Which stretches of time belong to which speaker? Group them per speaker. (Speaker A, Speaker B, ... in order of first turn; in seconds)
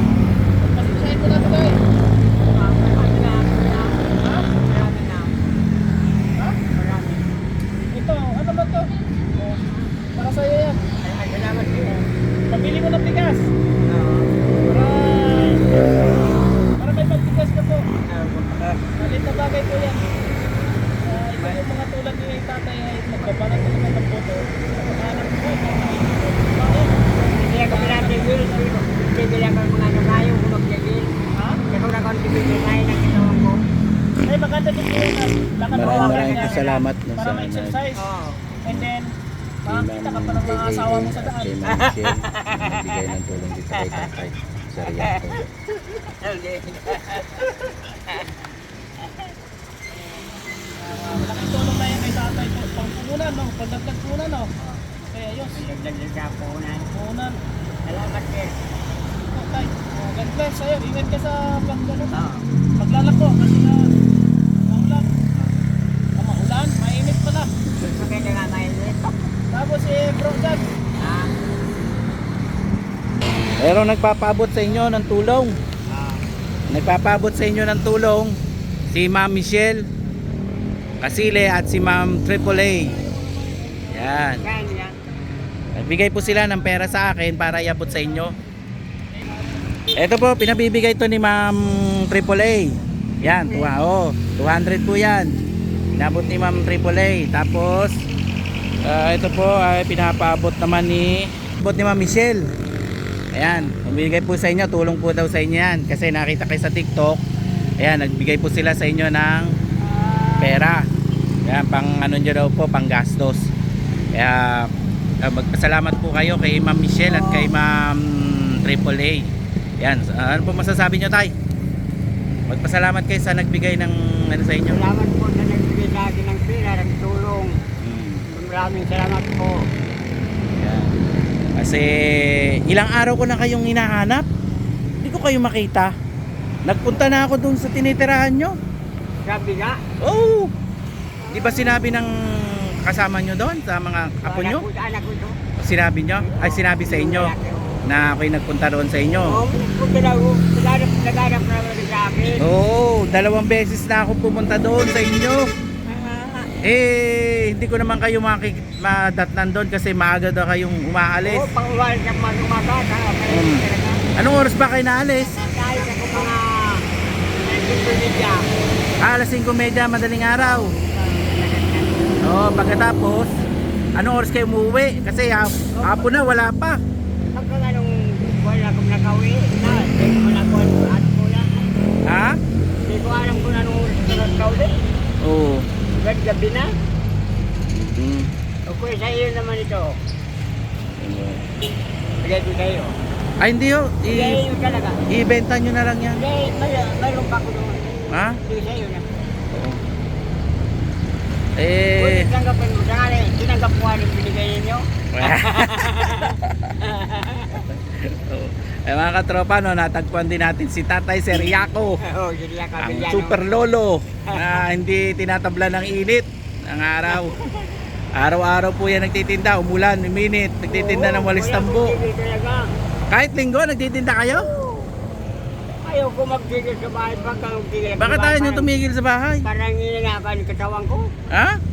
Speaker A: 0.6-1.8, 7.9-8.8, 10.2-10.8, 11.9-13.4, 14.7-15.7, 16.8-17.8, 19.0-20.0, 21.1-28.3, 34.2-37.9, 40.0-41.3, 51.3-54.5, 55.1-55.5, 57.0-57.4, 59.3-62.1, 62.8-63.8, 64.7-65.1, 66.2-67.5, 69.5-70.7
Speaker B: 2.4-5.3, 6.6-7.3, 9.7-9.9, 11.0-12.0, 13.8-14.3, 18.1-18.9, 21.4-21.8, 23.2-23.7, 27.3-31.1, 31.7-33.6, 35.8-36.7, 38.0-38.6, 41.6-43.2, 43.7-44.1, 44.8-48.4, 49.9-51.3, 54.6-54.8, 55.5-56.9, 57.9-58.6, 62.1-62.5, 67.8-69.3, 71.0-71.3, 75.9-76.2, 84.4-85.0, 93.4-93.8, 109.8-110.7, 117.0-117.5, 124.7-127.5, 128.3-129.7, 139.2-139.8, 141.2-141.8, 144.2-145.4, 146.2-147.8, 149.2-152.4, 155.9-156.5, 161.2-164.0, 165.4-166.8, 167.4-168.5, 170.6-172.3, 175.7-176.2, 177.3-181.7, 182.8-184.8, 185.9-186.7, 188.7-190.0, 192.2-192.9, 194.1-195.0, 196.2-197.8, 198.4-199.1, 201.9-207.6, 212.0-213.5, 214.3-214.6, 217.1-217.8, 220.7-222.6, 224.3-224.9, 225.8-228.8, 229.4-231.1
Speaker C: 35.7-37.8, 39.7-45.4, 73.6-75.5, 76.7-78.3, 78.9-79.8, 81.0-83.0, 83.9-84.5, 85.7-88.3, 90.0-95.3, 95.9-98.0, 98.8-102.5, 103.3-107.2, 107.8-109.5, 110.4-110.9, 111.5-113.5, 114.1-114.7, 115.2-121.3, 122.5-124.9, 127.8-128.2, 130.6-130.9, 131.6-134.2, 135.0-135.9, 136.6-138.5, 140.0-140.5, 141.3-144.6, 145.6-147.3, 147.8-149.4, 152.4-155.4, 156.6-161.5, 163.3-165.4, 169.0-170.7, 172.2-173.3, 174.0-176.8, 182.1-182.4, 185.2-185.7, 187.7-188.3, 191.0-191.4, 193.4-194.4, 195.1-196.2, 198.1-198.4, 199.5-199.8, 201.6-202.3, 205.1-206.8, 207.5-212.0, 212.8-217.3, 218.1-222.0, 223.1-224.5, 228.0-229.4, 231.3-231.6